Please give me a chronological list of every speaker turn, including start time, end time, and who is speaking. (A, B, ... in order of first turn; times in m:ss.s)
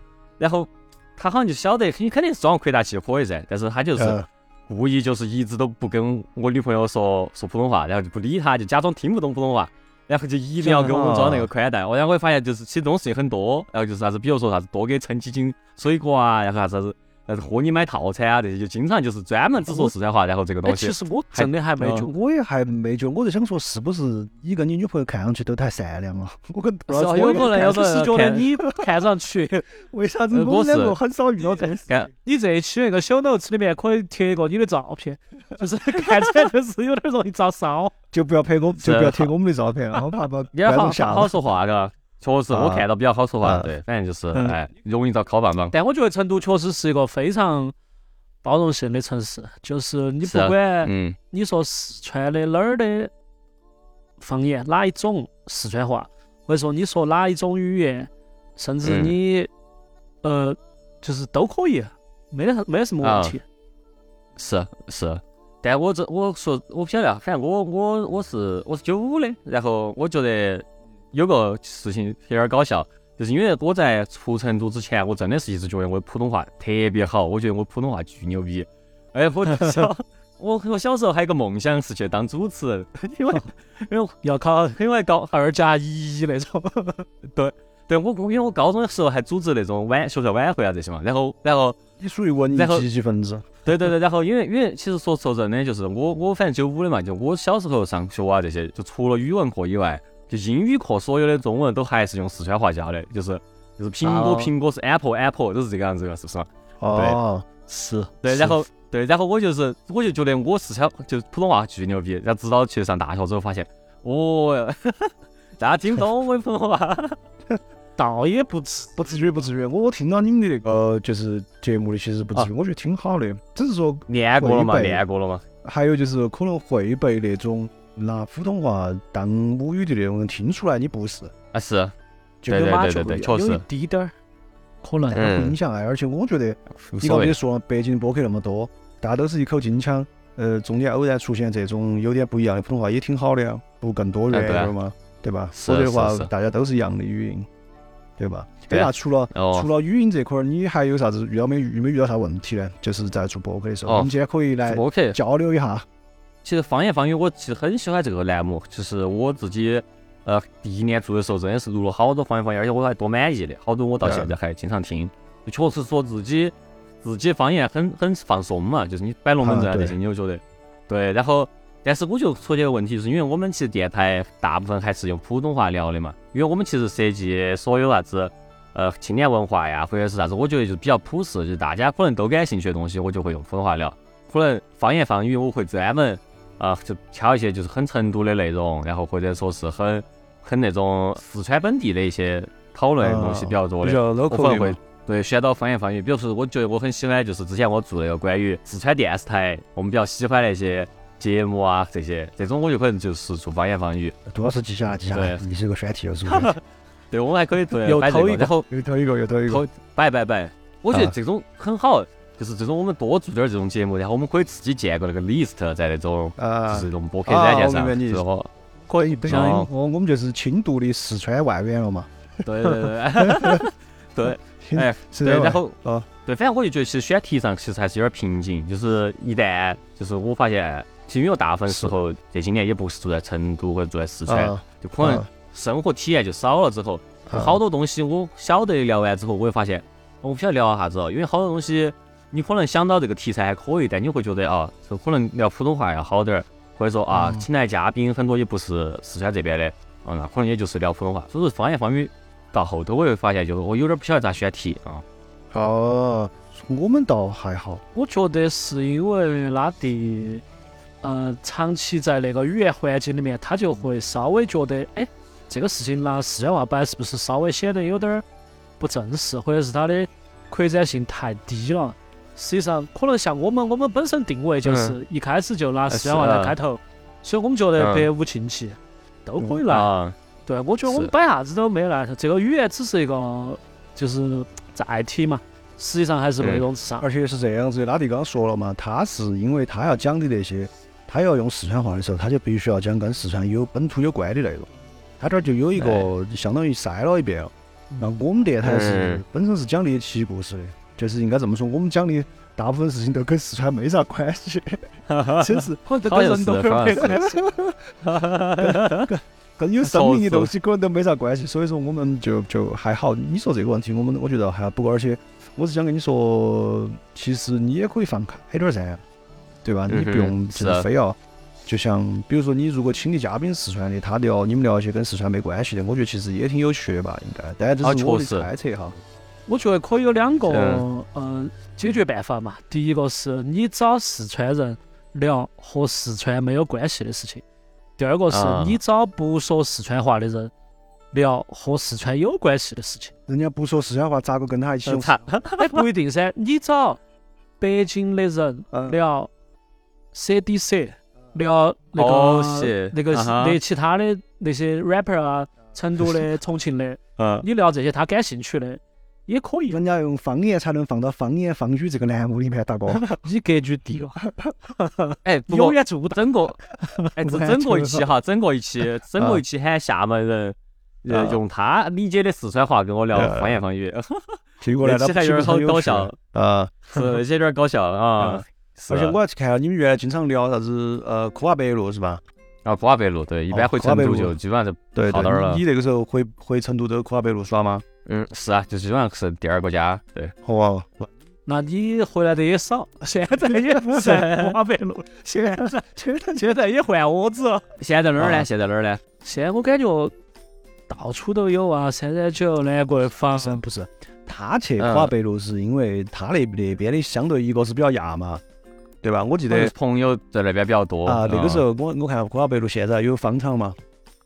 0:00.4-0:22.0 A
0:04.0-0:04.2 B
0:10.6-0:11.5 B
0:20.6-0:22.1 C
0:21.9-0:27.8 B
0:26.9-0:28.5 A
0:27.0-0:29.7 C
0:29.8-0:31.9 B
0:30.3-0:31.0 A
0:32.2-0:37.9 C
0:38.1-0:41.3 B
0:38.8-0:39.3 A
0:40.5-0:45.7 A
0:42.5-0:42.8 B
0:43.4-0:43.7 B
0:45.7-0:47.7 C
0:48.4-0:53.1 C
0:50.2-0:51.2 A
0:54.2-0:59.5 C
0:58.8-0:59.1 A
1:00.2-1:03.4 C
1:03.0-1:03.4 A
1:04.4-1:24.2 A
1:24.2-1:27.1 C
1:24.8-1:25.3 A
1:27.3-1:31.8 A
1:32.0-1:33.4 B
1:32.6-1:32.8 A
1:33.6-1:47.2 A
1:44.0-1:44.5 B
1:46.8-1:48.6 B
1:48.2-1:57.2 A
1:58.0-1:58.9 C
1:59.0-2:05.0 B
2:04.1-2:05.4 A
2:05.6-2:11.3 B
2:11.5-2:11.9 A
2:12.4-2:13.3 B
2:12.5-2:13.6 A
2:12.5-2:14.1 C
2:14.8-2:15.3 C
2:15.1-2:27.5 B
2:15.1-2:15.6 A
2:16.9-2:17.4 A
2:24.3-2:24.7 A
2:25.5-2:26.3 A
2:28.2-2:35.8 B
2:28.7-2:29.7 A
2:34.6-2:35.2 A
2:36.4-3:24.2 A
2:44.0-2:44.3 B
2:49.4-2:50.0 B
3:13.0-3:14.8 B
3:24.3-3:26.5 B
3:25.1-3:25.4 A
3:26.3-3:28.7 A
3:27.8-3:28.5 C
3:28.7-3:29.6 B
3:29.5-3:38.5 A
3:36.4-3:38.2 B
3:38.9-3:42.1 B
3:39.2-3:39.7 A
3:42.4-4:15.0 A
3:42.6-3:43.6 B
3:44.5-3:46.1 B
3:51.7-3:51.9 B
3:54.3-3:55.3 B
3:57.3-3:57.6 B
4:07.1-4:07.4 B
4:15.5-4:17.8 B
4:17.9-4:20.4 C
4:21.0-4:28.2 C
4:28.8-4:39.9 C
4:34.6-4:35.0 A
4:35.9-4:36.6 A
4:37.8-4:38.1 A
4:39.7-4:40.2 A
4:40.4-4:47.0 C
4:40.8-4:41.1 A
4:47.0-4:54.7 B
4:55.2-5:08.0 B
4:55.8-4:56.1 A
4:58.6-4:59.2 A
5:05.1-5:07.3 A
5:05.9-5:07.4 C
5:08.0-5:09.1 A
5:08.6-5:19.0 B
5:09.8-5:10.5 A
5:19.6-5:29.0 B
5:19.9-5:20.9 A
5:27.8-5:28.5 A
5:29.5-5:37.4 C
5:30.5-5:30.8 A
5:38.0-5:40.5 C
5:38.3-5:38.8 A
5:41.1-5:43.1 C
5:43.3-5:45.2 B
5:44.8-5:45.8 A
5:45.6-5:47.0 C
5:47.6-5:49.3 C
5:48.7-5:49.0 B
5:50.1-5:59.8 C
5:52.0-5:53.6 A
5:57.2-5:57.4 A
5:59.7-6:03.0 B
6:03.1-6:04.2 C
6:04.8-6:07.1 C
6:05.2-6:06.6 A
6:07.2-6:16.2 A
6:07.3-6:08.0 B
6:09.2-6:09.4 B
6:11.1-6:11.4 B
6:13.1-6:13.6 B
6:14.6-6:17.2 B
6:16.9-6:19.2 A
6:18.2-6:22.2 B
6:22.6-6:25.6 A
6:23.5-6:24.3 B
6:24.9-6:27.8 B
6:28.0-6:30.3 A
6:30.4-6:31.1 B
6:31.4-6:37.6 C
6:33.8-6:34.3 B
6:35.3-6:36.4 B
6:37.8-6:39.0 A
6:38.2-6:38.5 B
6:39.2-6:40.1 C
6:40.9-6:43.6 C
6:43.3-6:48.4 B
6:44.8-6:45.1 A
6:49.0-6:49.7 B
6:49.5-6:51.6 A
6:51.0-6:53.8 B